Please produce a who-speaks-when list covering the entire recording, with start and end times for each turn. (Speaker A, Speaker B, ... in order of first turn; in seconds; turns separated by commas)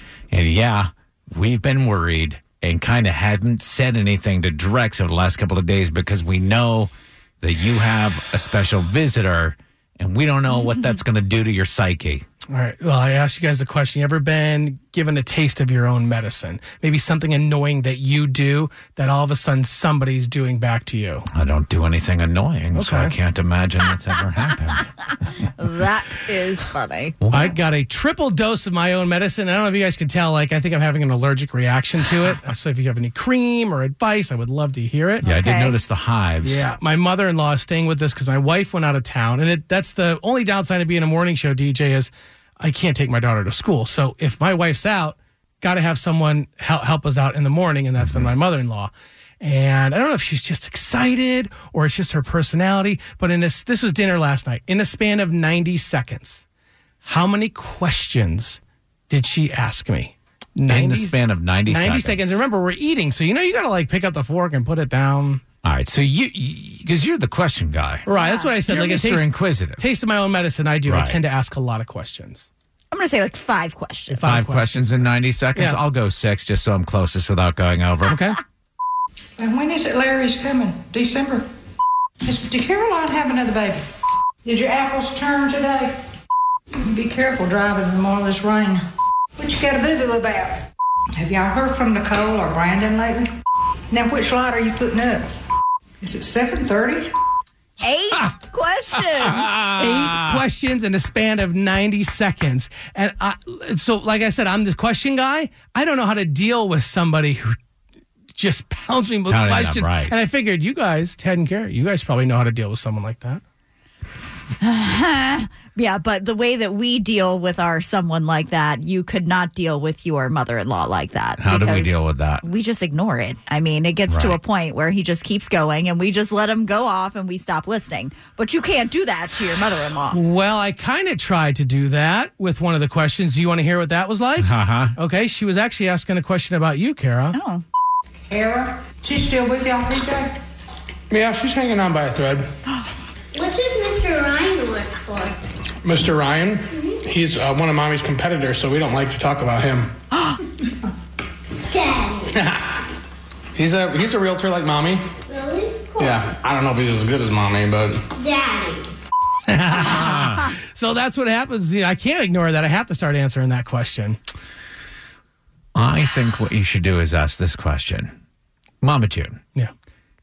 Speaker A: 0.3-12.2, Speaker B: 12.5-21.2, Speaker A: 21.3-24.9, Speaker B: 22.7-23.1, Speaker C: 25.6-27.2, Speaker A: 27.2-27.5, Speaker B: 27.3-35.2, Speaker A: 35.2-36.7, Speaker C: 35.2-35.8, Speaker B: 36.4-56.4, Speaker A: 48.0-48.3, Speaker B: 57.0-65.4, Speaker A: 60.7-62.4, Speaker A: 65.6-68.1, Speaker B: 68.0-72.5, Speaker C: 68.2-68.4, Speaker A: 68.7-69.8, Speaker A: 70.8-71.2, Speaker C: 72.9-74.3, Speaker A: 74.1-78.2, Speaker B: 74.2-75.8, Speaker B: 78.1-78.4, Speaker D: 79.4-81.4, Speaker D: 82.2-83.8, Speaker D: 84.4-86.0, Speaker D: 86.8-88.8, Speaker D: 89.4-93.3, Speaker D: 93.9-95.2, Speaker D: 96.0-97.1, Speaker C: 97.8-99.5, Speaker A: 99.2-100.4, Speaker B: 99.7-107.5, Speaker B: 108.3-113.4, Speaker A: 109.3-110.1, Speaker C: 114.6-130.2, Speaker A: 121.4-122.4, Speaker A: 124.1-124.4, Speaker B: 130.1-137.4, Speaker A: 134.4-134.9, Speaker C: 137.3-137.6, Speaker D: 138.3-140.4, Speaker E: 141.1-142.5, Speaker F: 143.3-145.3, Speaker E: 145.8-149.9, Speaker F: 146.7-147.0, Speaker F: 151.7-152.4, Speaker E: 152.3-152.6, Speaker E: 153.6-155.1, Speaker F: 155.3-156.2, Speaker E: 156.0-158.0, Speaker F: 158.1-158.9, Speaker B: 159.5-164.2, Speaker A: 159.8-160.5, Speaker A: 165.7-168.1, Speaker A: 168.8-169.4